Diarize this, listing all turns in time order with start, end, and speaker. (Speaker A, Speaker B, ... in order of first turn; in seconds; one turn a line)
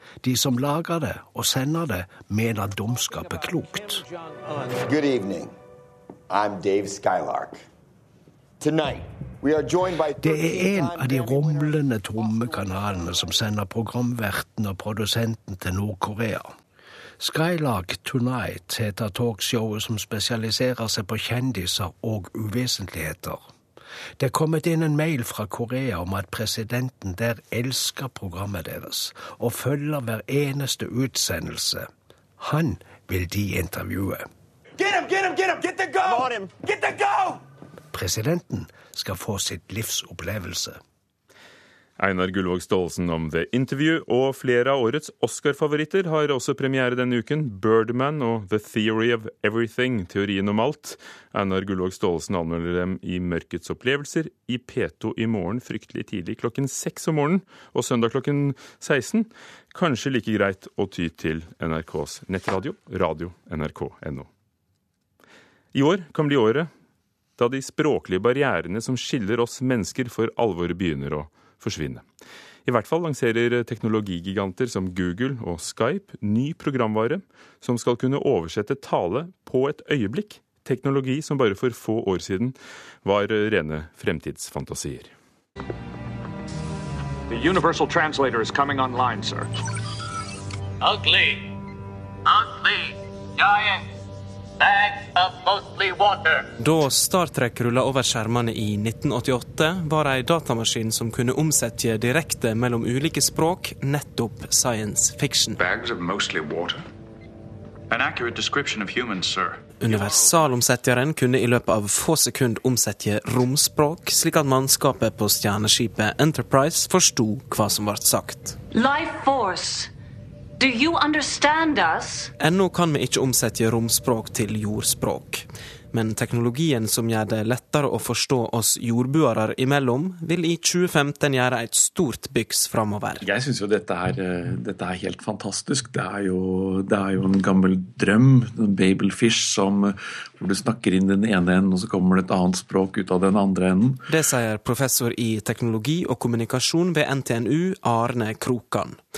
Speaker A: 0.2-4.1
Speaker B: 4.7-5.5
Speaker B: 6.3-7.6
Speaker B: 8.6-11.7
Speaker A: 10.2-16.5
Speaker A: 17.2-23.4
Speaker A: 24.2-34.3
Speaker C: 34.8-37.4
Speaker B: 36.1-36.5
Speaker A: 37.9-40.8
Speaker D: 42.0-64.3
Speaker D: 65.7-66.7
Speaker D: 67.4-72.0
Speaker D: 72.7-85.1
Speaker E: 87.3-89.5
Speaker E: 90.8-91.5
Speaker E: 92.3-93.8
Speaker E: 94.6-96.5
Speaker F: 96.6-105.6
Speaker E: 105.6-106.8
Speaker E: 107.9-109.6
Speaker F: 109.8-118.6
Speaker G: 118.7-119.9
Speaker G: 120.6-122.3
Speaker F: 122.4-133.3
Speaker H: 133.2-144.0
Speaker F: 144.1-149.0